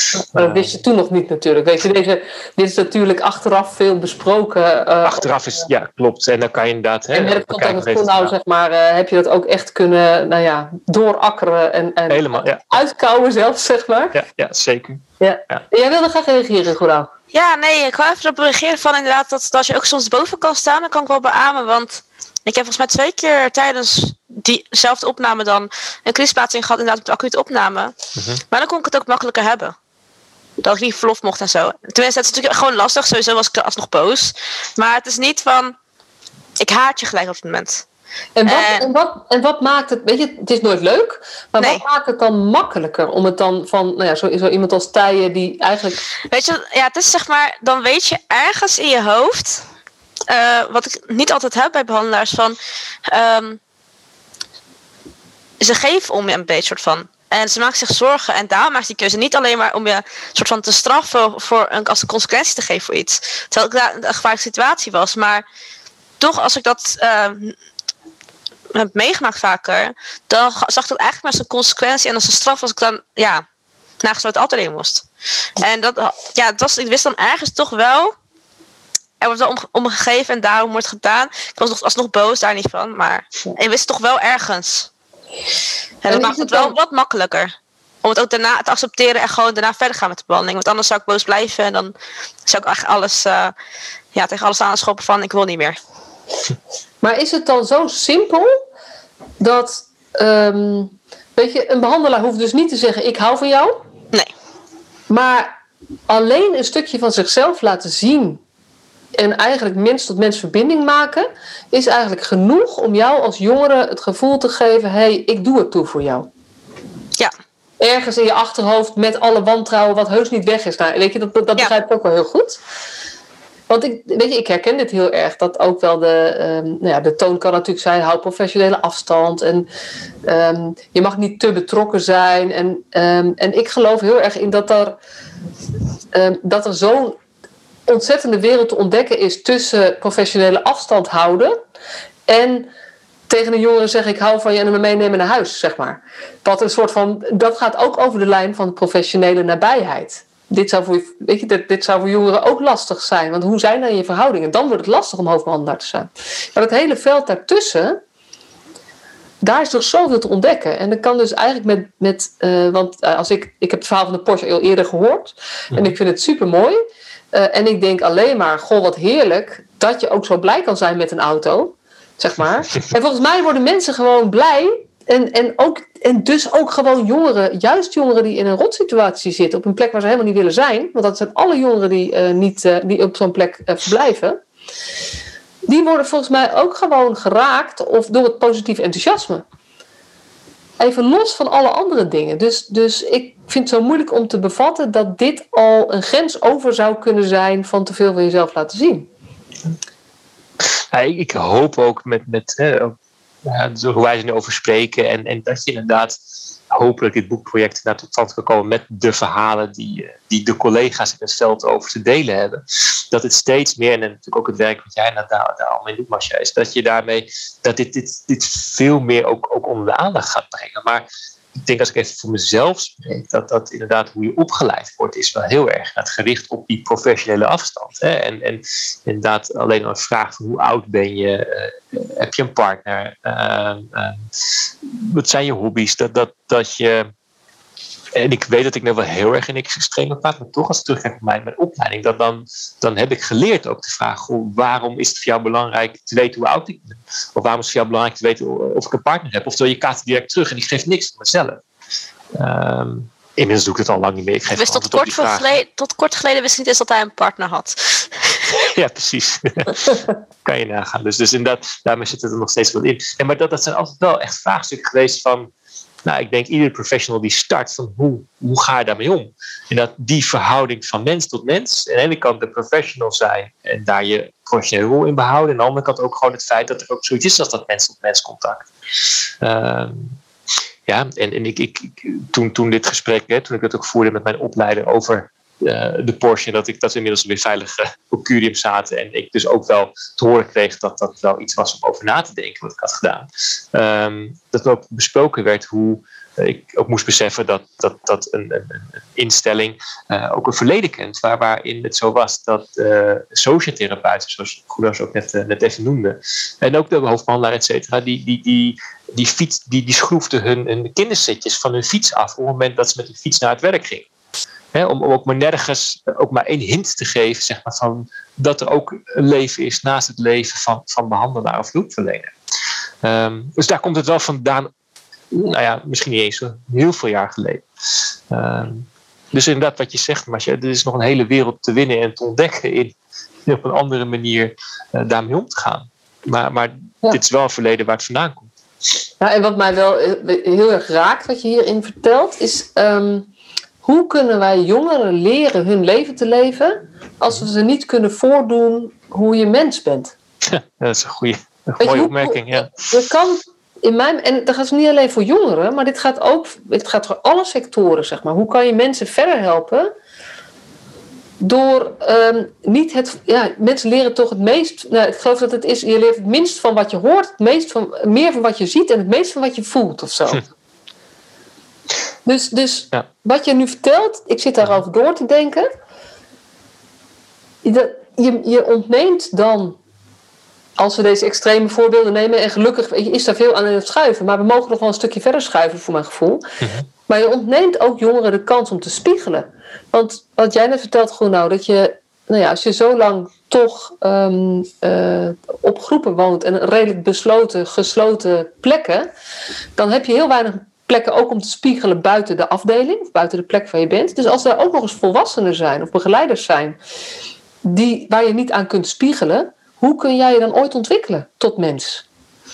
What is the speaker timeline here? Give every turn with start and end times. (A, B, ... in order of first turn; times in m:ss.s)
0:00.2-0:05.7 A
0:00.3-0:00.8 B
0:05.0-0:08.3 B
0:07.1-0:14.2 A
0:12.1-0:12.8 B
0:14.1-0:15.6 B
0:15.2-0:17.1 A
0:17.3-0:28.0 C
0:28.5-0:29.8 C
0:30.6-0:35.8 C
0:36.6-0:37.8 C
0:38.4-0:46.0 A
0:38.5-0:38.9 C
0:46.3-0:49.6 C
0:50.3-0:53.6 C
0:55.6-1:05.4 C
1:06.2-1:07.6 C
1:08.7-1:13.4 C
1:14.0-1:15.1 C
1:15.6-1:18.1 C
1:19.2-1:24.9 C
1:26.0-1:27.5 C
1:26.1-1:26.8 A
1:28.0-1:31.9 C
1:32.5-1:33.5 C
1:34.1-1:35.8 C
1:37.0-1:38.5 A
1:39.4-1:43.8 A
1:45.1-1:45.5 A
1:46.1-1:48.4 A
1:49.2-1:56.3 A
1:57.8-2:02.6 A
2:03.7-2:09.7 A
2:10.3-2:15.0 A
2:16.1-2:17.2 A
2:17.9-2:21.6 A
2:22.3-2:22.7 A
2:23.3-2:38.0 A
2:39.4-2:46.8 A
2:47.3-3:04.4 A
3:05.7-3:09.4 A
3:10.8-3:19.1 A
3:20.9-3:26.2 B
3:26.7-3:54.2 B
3:54.8-3:57.1 B
3:58.1-4:11.6 B
4:12.4-4:15.5 B
4:14.6-4:18.5 C
4:18.6-4:25.5 B
4:26.0-4:38.7 B
4:39.4-4:40.2 B
4:40.9-5:14.1 B
5:14.7-5:22.3 B
5:23.0-5:24.7 B
5:25.3-5:27.7 B
5:28.3-5:33.0 B
5:33.5-5:38.5 B
5:39.2-5:43.3 A
5:43.8-5:50.1 A
5:50.5-5:53.0 B
5:51.8-5:59.9 A
6:01.4-6:10.5 A
6:12.3-6:15.7 A
6:17.6-6:19.8 A
6:20.8-6:26.4 A
6:26.6-6:26.9 B
6:27.1-6:39.1 A
6:39.8-6:46.8 A
6:47.6-6:52.0 A